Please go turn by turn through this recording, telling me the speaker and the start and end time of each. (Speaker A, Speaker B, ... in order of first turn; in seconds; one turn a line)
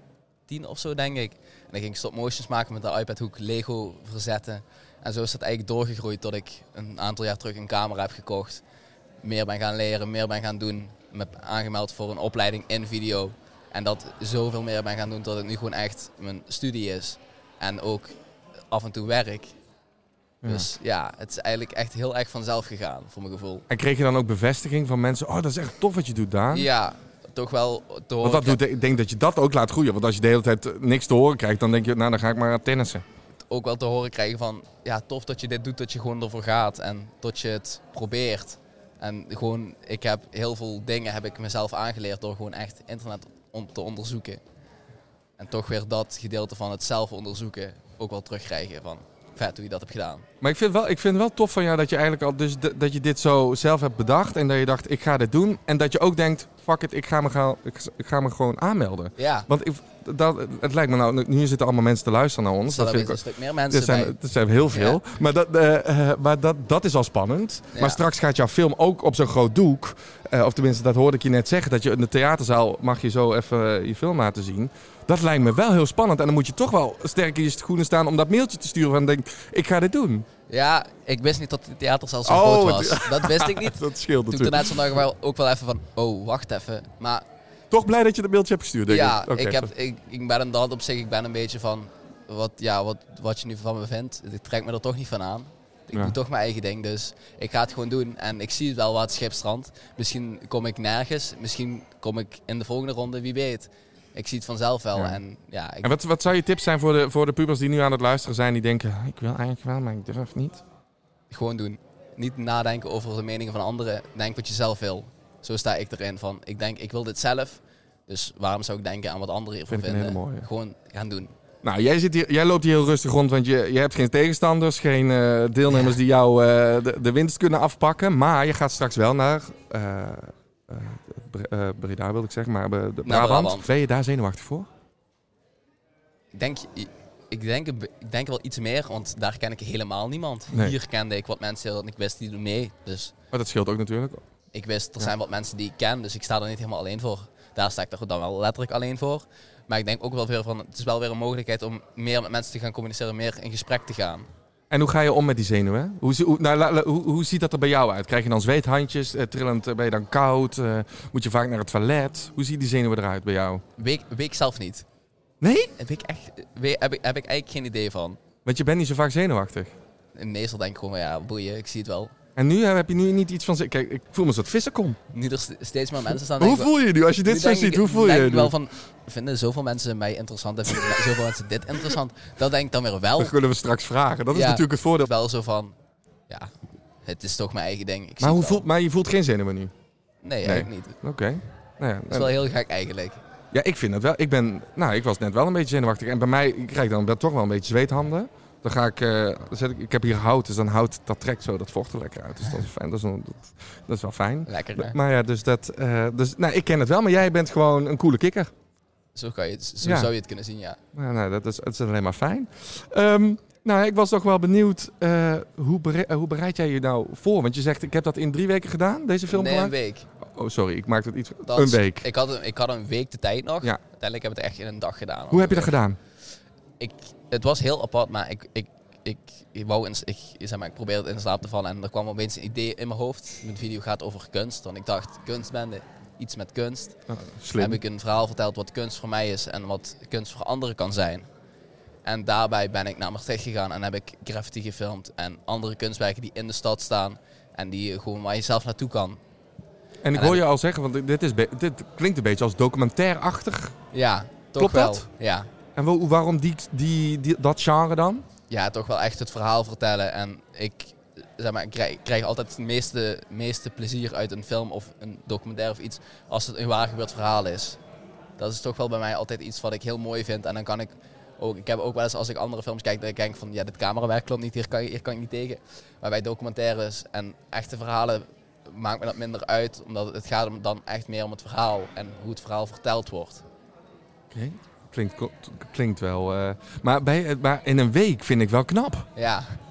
Speaker A: 0.5-8.6
Speaker A: 9.2-18.1
Speaker A: 18.7-19.6
Speaker B: 20.4-20.7
Speaker A: 20.4-23.6
Speaker B: 23.7-26.7
Speaker A: 26.5-28.6
Speaker B: 28.2-33.0
Speaker A: 33.5-44.4
Speaker A: 45.4-50.3
Speaker B: 50.4-80.3
Speaker A: 59.2-59.5
Speaker A: 62.7-64.2
Speaker A: 64.7-65.0
Speaker A: 67.7-68.0
Speaker A: 80.5-87.2
Speaker B: 82.2-85.0
Speaker B: 87.7-89.7
Speaker A: 88.9-105.9
Speaker B: 104.9-105.2
Speaker B: 105.8-110.6
Speaker A: 111.3-121.3
Speaker B: 119.7-120.5
Speaker B: 121.6-134.7
Speaker A: 125.7-126.0
Speaker A: 133.1-133.7
Speaker A: 136.3-143.1
Speaker B: 143.3-144.2
Speaker A: 144.5-154.3
Speaker B: 154.7-163.6
Speaker A: 163.8-164.8
Speaker B: 165.4-165.7
Speaker A: 165.8-168.2
Speaker B: 168.4-169.7
Speaker A: 170.2-172.1
Speaker B: 172.4-175.0
Speaker A: 175.1-183.3
Speaker B: 176.4-178.6
Speaker B: 183.2-185.1
Speaker A: 184.3-185.8
Speaker A: 187.0-188.7
Speaker B: 188.2-189.7
Speaker A: 190.2-191.0
Speaker B: 190.4-192.3
Speaker A: 192.1-193.2
Speaker B: 193.5-208.5
Speaker A: 204.5-204.9
Speaker A: 209.2-210.8
Speaker B: 209.8-210.1
Speaker B: 210.9-219.7
Speaker A: 219.3-220.1
Speaker B: 220.3-222.1
Speaker A: 221.5-225.8
Speaker B: 225.3-226.0
Speaker A: 226.8-237.0
Speaker B: 237.1-237.8
Speaker A: 237.6-241.3
Speaker A: 242.1-249.2
Speaker B: 250.1-253.8
Speaker A: 250.1-250.4
Speaker A: 253.9-255.5
Speaker B: 254.6-255.1
Speaker B: 255.8-258.3
Speaker A: 258.5-267.8
Speaker A: 268.4-283.4
Speaker B: 284.3-289.1
Speaker A: 289.2-289.6